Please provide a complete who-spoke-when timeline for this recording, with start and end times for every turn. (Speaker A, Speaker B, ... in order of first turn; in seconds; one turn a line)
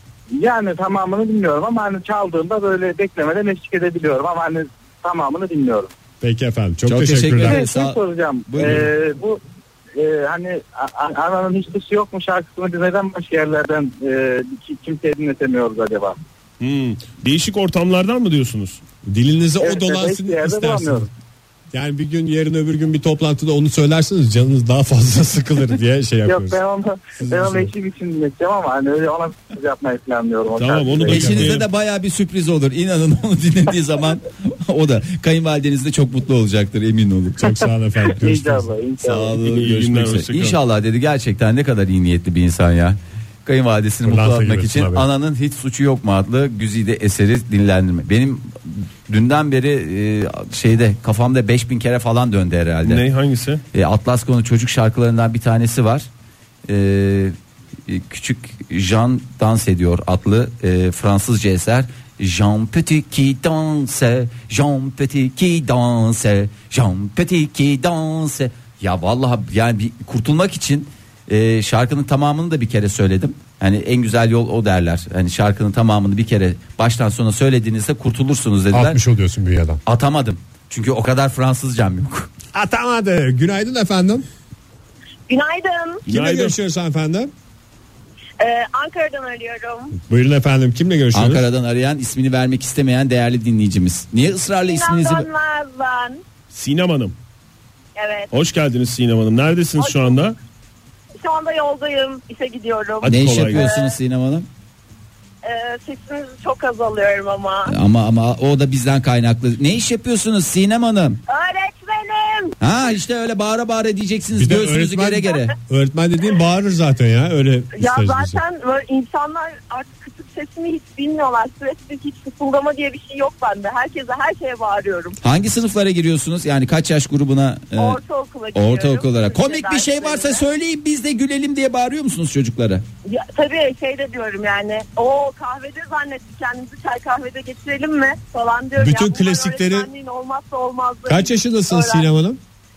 Speaker A: 0.3-5.9
Speaker B: 6.2-7.6
Speaker C: 6.8-8.9
Speaker A: 7.4-9.4
Speaker A: 9.9-16.1
Speaker D: 16.6-18.8
Speaker B: 19.1-21.1
Speaker A: 19.6-21.1
Speaker B: 21.7-26.6
Speaker A: 26.2-31.3
Speaker B: 27.2-27.7
Speaker D: 30.6-31.7
Speaker B: 31.1-31.6
Speaker C: 31.1-37.6
Speaker B: 37.4-38.7
Speaker A: 38.1-39.5
Speaker C: 39.0-53.0
Speaker D: 39.4-40.6
Speaker B: 44.0-45.1
Speaker D: 52.8-53.6
Speaker C: 53.7-56.1
Speaker C: 56.7-57.4
Speaker C: 57.9-79.0
Speaker B: 78.7-79.8
Speaker C: 79.8-82.3
Speaker B: 82.5-84.2
Speaker E: 85.3-86.0
Speaker B: 86.1-87.3
Speaker D: 86.1-86.5
Speaker E: 88.4-89.9
Speaker B: 90.1-91.5
Speaker C: 91.1-95.3
Speaker E: 94.6-96.2
Speaker D: 96.5-97.1
Speaker E: 98.0-98.3
Speaker D: 98.3-100.3
Speaker E: 99.8-100.3
Speaker E: 101.2-104.0
Speaker D: 103.0-103.7
Speaker C: 103.0-104.5
Speaker E: 105.4-107.7
Speaker C: 107.7-111.2
Speaker E: 111.3-112.5
Speaker C: 112.6-115.5
Speaker B: 114.3-118.4
Speaker E: 117.7-125.2
Speaker C: 125.2-128.0
Speaker E: 127.7-130.4
Speaker C: 128.5-132.8
Speaker E: 133.1-142.1
Speaker B: 138.8-139.9
Speaker B: 141.1-142.4